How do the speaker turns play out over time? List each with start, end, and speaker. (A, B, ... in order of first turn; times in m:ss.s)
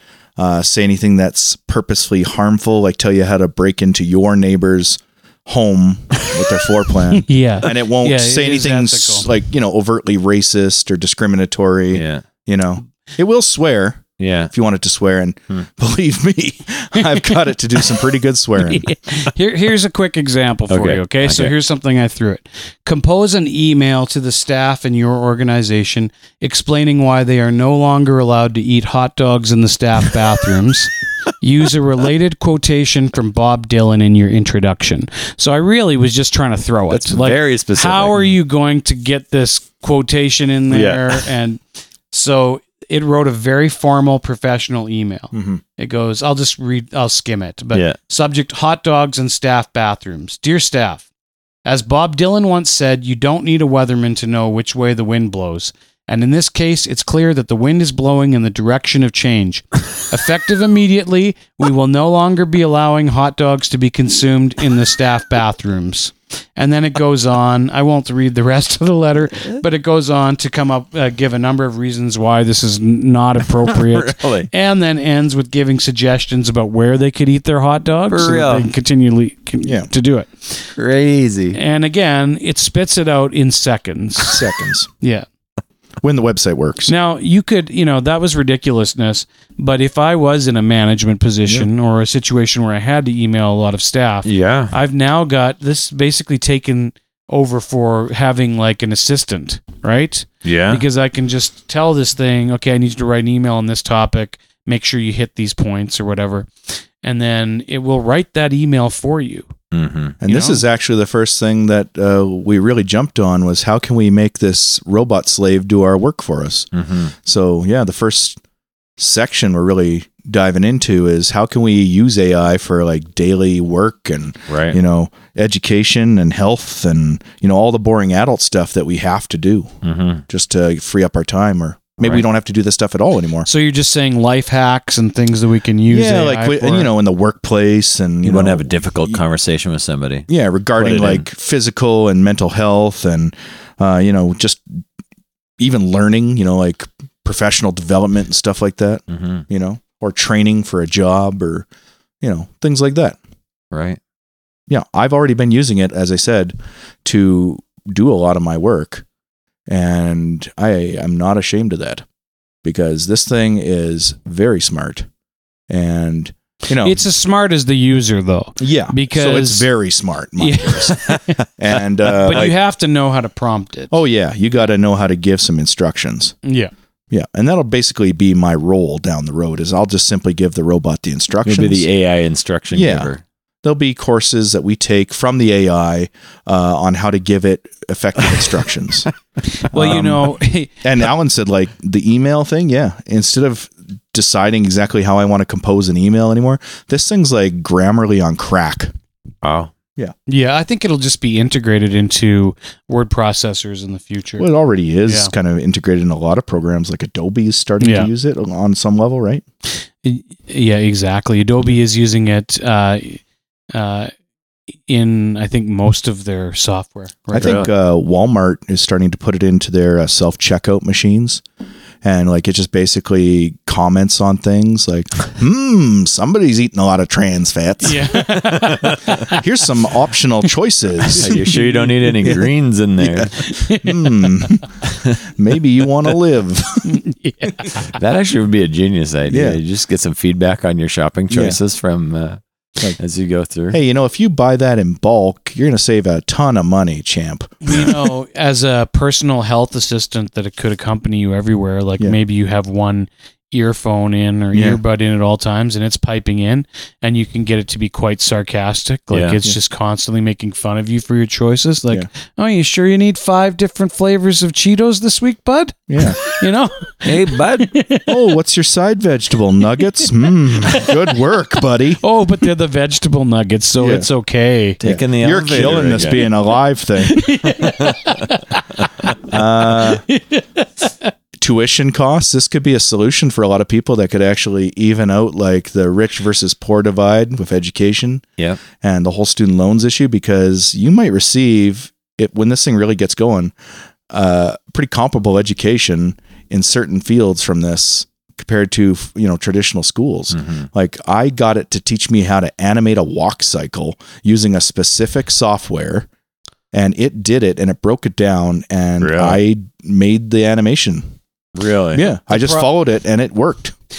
0:00.4-0:18.8 A
0:07.1-0:09.3 B
0:11.9-0:12.2 C
0:14.2-0:14.5 C
0:17.0-0:17.4 B
0:18.6-0:51.0 B
0:20.7-0:21.5 C
0:36.9-0:38.3 C
0:40.7-0:41.2 C
0:45.3-0:45.6 A
0:51.6-1:20.7 B
1:13.6-1:14.5 C
1:18.1-1:18.7 C
1:19.6-1:19.9 A
1:20.8-1:21.6 C
1:21.5-1:24.4 B
1:24.2-1:24.9 A
1:25.0-1:25.3 B
1:26.0-1:26.9 A
1:26.9-1:49.5 B
1:34.2-1:34.7 C
1:40.4-1:40.8 C
1:49.7-1:50.2 C
1:50.2-1:58.4 A
1:50.3-1:50.6 B
1:56.7-1:57.1 C
1:59.0-2:09.7 A
2:04.5-2:04.8 C
2:09.8-2:10.2 C
2:10.3-2:13.5 A
2:13.4-2:16.9 B
2:15.9-2:19.2 A
2:18.2-2:21.2 C
2:20.3-2:24.7 A
2:25.6-2:31.6 A
2:29.1-2:29.4 C
2:32.2-2:33.2 A
2:33.7-2:34.0 C
2:34.7-2:36.5 A
2:37.0-2:39.0 A
2:39.7-2:42.0 A
2:42.6-2:45.1 A
2:45.7-2:47.0 A
2:46.8-2:49.7 B
2:48.6-2:51.0 A
2:50.4-2:51.4 B
2:51.0-2:51.4 C
2:51.6-2:52.5 A
2:52.1-2:54.0 B
2:52.2-2:52.5 C
2:53.9-2:56.3 A
2:56.4-2:56.7 B
2:57.1-3:01.9 A
3:01.4-3:03.2 C
3:02.7-3:03.1 A
3:03.6-3:09.1 A
3:09.6-3:10.8 B
3:09.7-3:18.9 A
3:19.4-3:19.7 C
3:20.3-3:24.4 B
3:24.4-3:29.4 A
3:25.0-3:25.3 B
3:27.8-3:28.1 B
3:30.0-3:34.1 B
3:34.8-3:37.7 B
3:37.3-3:41.4 A
3:37.4-3:37.7 C
3:42.0-3:48.4 A
3:47.8-3:49.4 B
3:48.5-3:49.1 C
3:49.2-3:51.5 A
3:51.0-3:52.1 B
3:51.2-3:53.3 C
3:53.0-3:57.0 A
3:53.4-3:54.6 B
3:54.9-3:55.2 C
3:56.8-3:57.9 B
3:57.9-4:02.4 C
3:59.3-3:59.6 A
4:01.3-4:01.6 A
4:03.0-4:03.8 C
4:03.7-4:08.1 A
4:07.6-4:28.1 B
4:14.5-4:14.8 A
4:19.1-4:19.4 C
4:25.9-4:26.2 A
4:27.0-4:27.7 C
4:28.1-4:32.0 A
4:30.0-4:30.9 B
4:32.0-4:34.8 B
4:33.8-4:34.1 A
4:34.8-4:36.2 C
4:34.8-4:37.3 A
4:37.1-4:38.9 B
4:37.6-4:38.1 C
4:39.2-4:40.0 A
4:39.6-4:41.1 B
4:41.4-4:53.5 A
4:54.1-5:06.1 A
5:00.3-5:00.7 C
5:06.7-5:11.1 A
5:09.0-5:09.4 C
5:11.5-5:12.0 C
5:11.9-5:13.7 A
5:12.3-5:12.7 B